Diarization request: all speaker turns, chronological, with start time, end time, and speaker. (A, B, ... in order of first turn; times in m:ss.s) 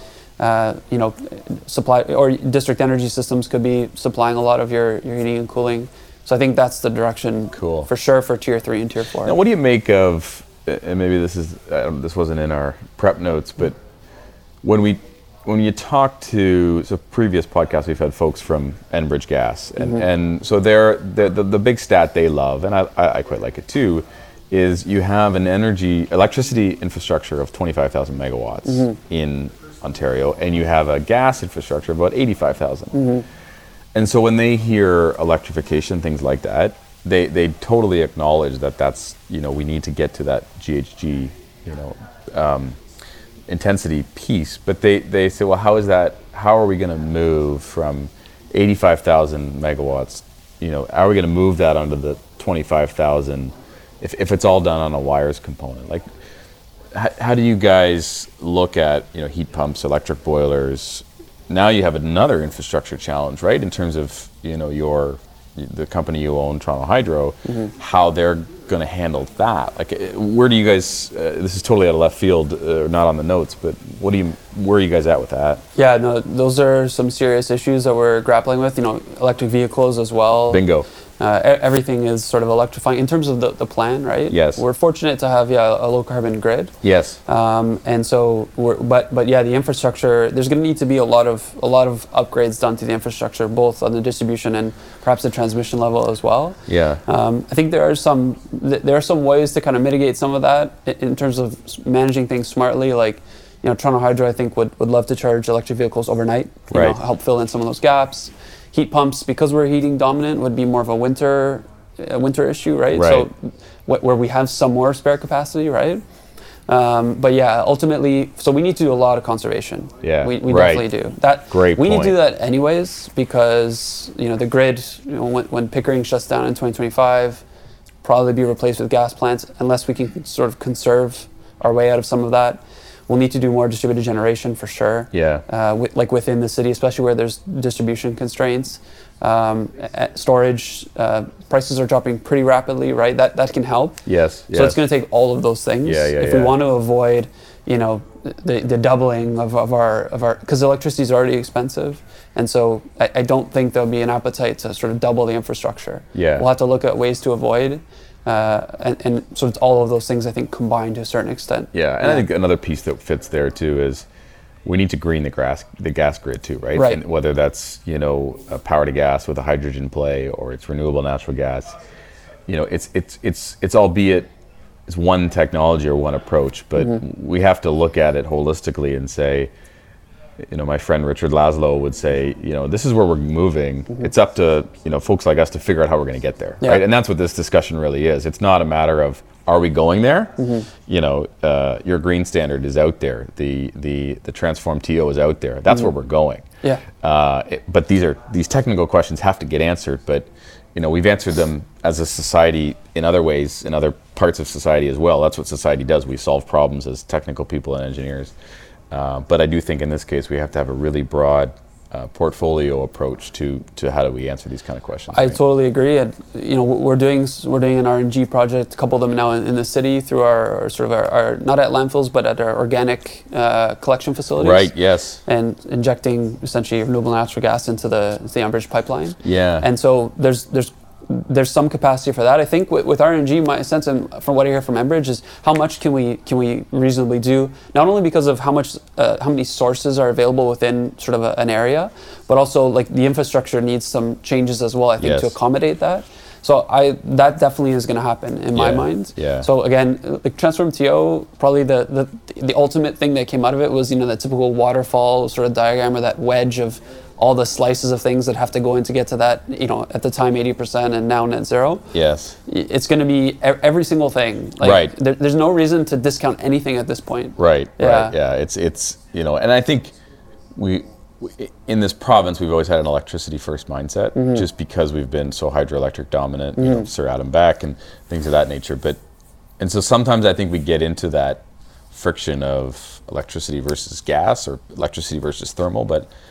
0:00.4-0:09.4 A
0:07.5-0:07.9 B
0:09.2-0:13.8 B
0:14.6-0:33.1 B
0:32.9-0:33.2 A
0:34.0-0:42.8 B
0:43.5-0:56.0 B
0:56.9-1:15.6 B
1:15.8-1:20.6 A
1:20.5-1:20.9 B
1:21.2-1:26.8 A
1:24.3-1:24.6 B
1:26.8-1:27.2 B
1:27.3-1:56.0 A
1:36.7-1:37.0 B
1:46.7-1:47.0 B
1:52.9-1:53.3 B
1:56.7-2:07.4 A
2:00.0-2:00.9 B
2:01.5-2:02.2 B
2:08.0-2:42.2 A
2:15.1-2:15.4 B
2:24.0-2:24.8 B
2:25.8-2:26.6 B
2:36.1-2:36.5 B
2:41.7-2:44.0 B
2:44.6-2:51.7 B
2:46.8-2:47.0 A
2:52.5-2:54.3 B
2:54.9-2:59.5 B
3:00.4-3:16.4 B
3:10.4-3:10.7 A
3:17.0-3:28.3 B
3:28.9-3:35.4 B
3:35.1-3:44.7 A
3:44.4-3:45.2 B
3:45.3-4:21.9 A
3:49.2-3:49.7 B
4:05.0-4:05.4 B
4:08.5-4:09.5 B
4:21.9-4:22.4 B
4:22.5-4:28.1 A
4:24.6-4:24.9 B
4:27.4-4:29.9 B
4:30.6-4:39.0 B
4:34.2-4:34.4 A
4:36.6-4:36.9 A
4:39.6-4:46.1 B